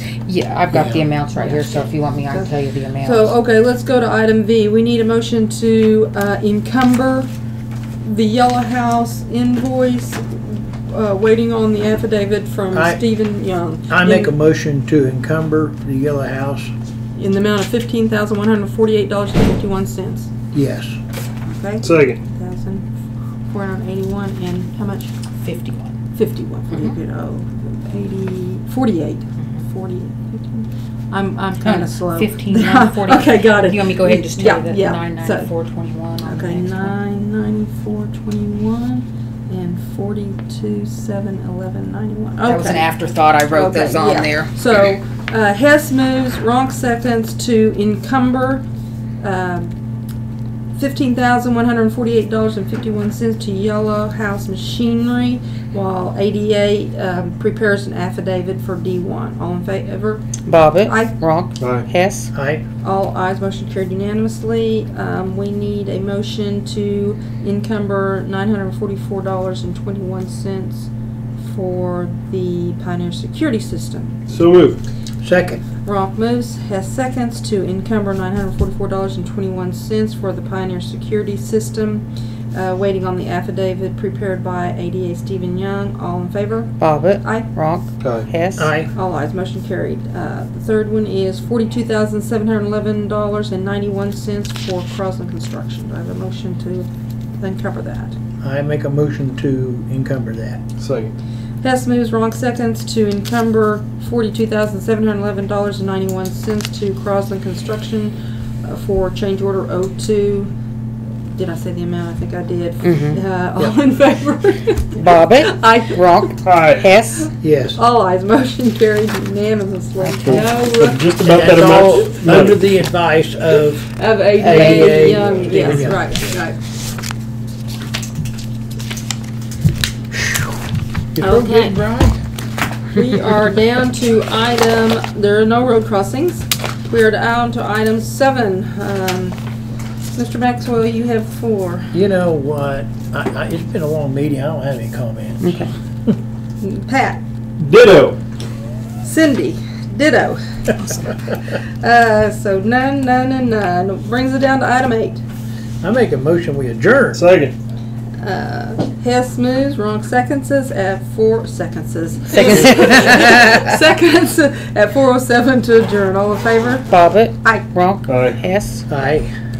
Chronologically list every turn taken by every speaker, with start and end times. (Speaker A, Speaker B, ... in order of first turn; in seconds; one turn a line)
Speaker A: 0.3-3.4
Speaker B: 0.7-1.1
Speaker C: 1.3-7.3
Speaker C: 8.0-14.3
Speaker B: 12.7-13.0
Speaker B: 13.9-16.7
Speaker C: 17.2-20.3
Speaker B: 20.5-21.0
Speaker C: 21.5-22.9
Speaker D: 21.8-22.2
Speaker C: 23.5-25.1
Speaker A: 25.4-25.9
Speaker C: 26.1-35.5
Speaker A: 26.7-27.0
Speaker A: 31.6-36.9
Speaker C: 36.2-42.9
Speaker A: 42.4-44.5
Speaker C: 43.5-48.6
Speaker C: 49.2-49.7
Speaker C: 50.8-60.2
Speaker A: 60.5-62.3
Speaker C: 60.8-61.2
Speaker D: 61.6-61.9
Speaker B: 62.3-62.6
Speaker C: 62.8-74.1
Speaker D: 74.3-74.8
Speaker B: 75.2-75.6
Speaker C: 75.8-87.5
Speaker A: 86.8-88.7
Speaker D: 88.0-88.3
Speaker B: 88.6-88.9
Speaker C: 88.9-96.9
Speaker C: 97.4-98.2
Speaker B: 98.4-100.6
Speaker D: 100.8-101.2
Speaker C: 101.6-110.5
Speaker C: 111.3-116.4
Speaker A: 112.8-113.2
Speaker A: 115.0-117.3
Speaker D: 116.4-116.9
Speaker B: 117.4-117.8
Speaker C: 117.8-121.1
Speaker A: 120.0-120.5
Speaker D: 120.2-122.7
Speaker B: 121.2-126.0
Speaker A: 121.6-122.1
Speaker C: 123.8-126.6
Speaker A: 124.4-125.6
Speaker B: 130.1-130.5
Speaker B: 131.2-132.2
Speaker C: 131.2-131.8
Speaker C: 132.9-139.4
Speaker C: 140.2-141.9
Speaker B: 141.9-146.2
Speaker A: 145.4-145.7
Speaker C: 146.6-147.2
Speaker D: 147.6-148.2
Speaker C: 149.0-155.2
Speaker B: 155.8-157.2
Speaker D: 157.1-157.6
Speaker C: 158.2-167.7
Speaker A: 162.8-163.6
Speaker A: 166.9-168.8
Speaker D: 168.1-168.4
Speaker B: 168.9-169.3